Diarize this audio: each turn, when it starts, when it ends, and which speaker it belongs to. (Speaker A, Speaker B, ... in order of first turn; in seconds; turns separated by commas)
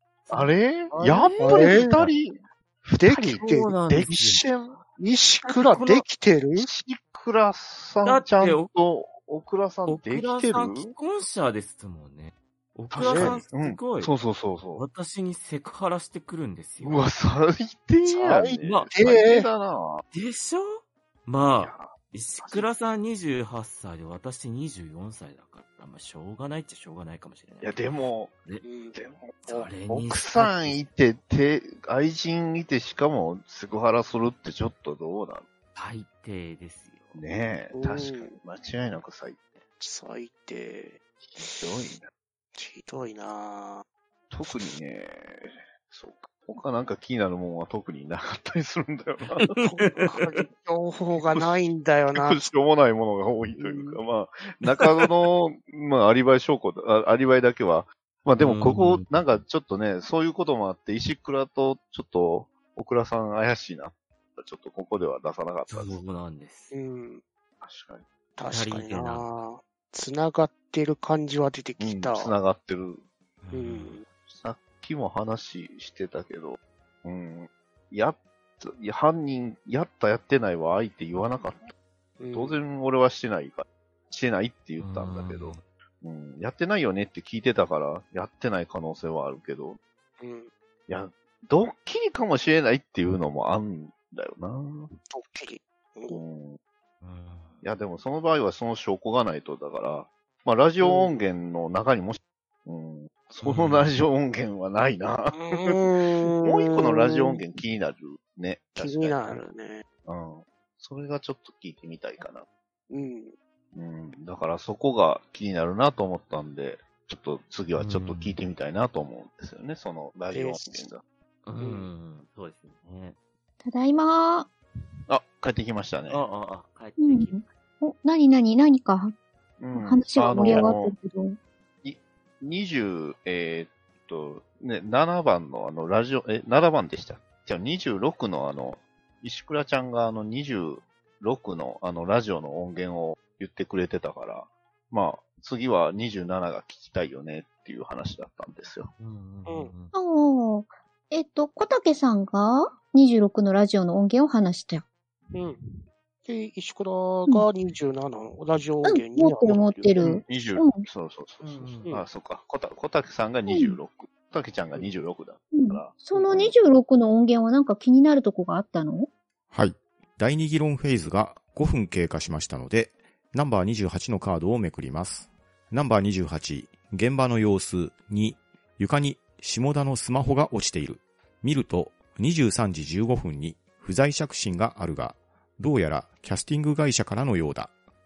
Speaker A: 0.3-2.1, Speaker B: 0.3-4.7, Speaker C: 1.4-2.0, Speaker C: 3.0-4.1, Speaker A: 3.3-4.5, Speaker C: 5.0-6.7, Speaker A: 5.5-6.0, Speaker B: 6.6-10.9, Speaker A: 8.0-8.7, Speaker A: 9.9-14.1, Speaker B: 12.9-14.8, Speaker C: 13.0-13.4, Speaker A: 14.8-17.1, Speaker B: 16.8-20.0, Speaker C: 18.1-19.5, Speaker A: 18.6-18.9, Speaker A: 20.1-27.9, Speaker B: 21.6-22.7, Speaker B: 27.6-28.3, Speaker C: 28.6-29.0, Speaker B: 28.9-35.5, Speaker A: 29.4-30.8, Speaker A: 35.8-37.2, Speaker B: 37.1-39.4, Speaker C: 37.7-38.4, Speaker C: 39.8-41.6, Speaker B: 41.4-42.1, Speaker C: 42.5-43.9, Speaker B: 44.3-49.6, Speaker A: 49.4-50.4, Speaker C: 49.6-52.4, Speaker B: 52.1-66.0, Speaker C: 53.6-54.0, Speaker A: 58.4-59.1, Speaker A: 65.7-66.7, Speaker C: 66.7-67.2, Speaker B: 67.6-68.0, Speaker C: 68.4-72.3, Speaker A: 68.5-69.3, Speaker B: 71.8-73.0, Speaker A: 73.4-74.0, Speaker C: 73.5-74.1, Speaker B: 74.3-81.7, Speaker C: 82.2-82.6, Speaker B: 82.3-89.8, Speaker A: 84.8-85.6, Speaker C: 90.2-90.5, Speaker B: 90.9-94.9, Speaker C: 95.1-96.2, Speaker B: 96.1-96.6, Speaker A: 97.0-97.6, Speaker B: 97.6-105.8, Speaker C: 100.8-101.1, Speaker A: 103.4-103.9, Speaker C: 105.3-107.4, Speaker B: 106.4-109.4, Speaker C: 108.7-109.8, Speaker B: 110.0-112.5, Speaker C: 112.9-113.3, Speaker B: 113.7-121.0, Speaker A: 117.8-118.4, Speaker C: 120.3-120.8, Speaker A: 121.5-123.2, Speaker C: 121.6-121.9, Speaker D: 123.6-124.5, Speaker B: 125.1-126.2, Speaker A: 126.1-127.3, Speaker D: 127.0-129.1, Speaker B: 129.6-130.9, Speaker D: 129.7-131.4, Speaker B: 131.8-148.9, Speaker A: 149.0-149.9, Speaker C: 149.5-149.7, Speaker D: 149.9-154.8, Speaker C: 155.3-155.6, Speaker C: 156.2-160.2, Speaker D: 158.8-160.9, Speaker B: 160.0-166.5, Speaker A: 161.4-161.9, Speaker D: 163.5-163.8, Speaker D: 165.5-169.1, Speaker E: 169.5-187.7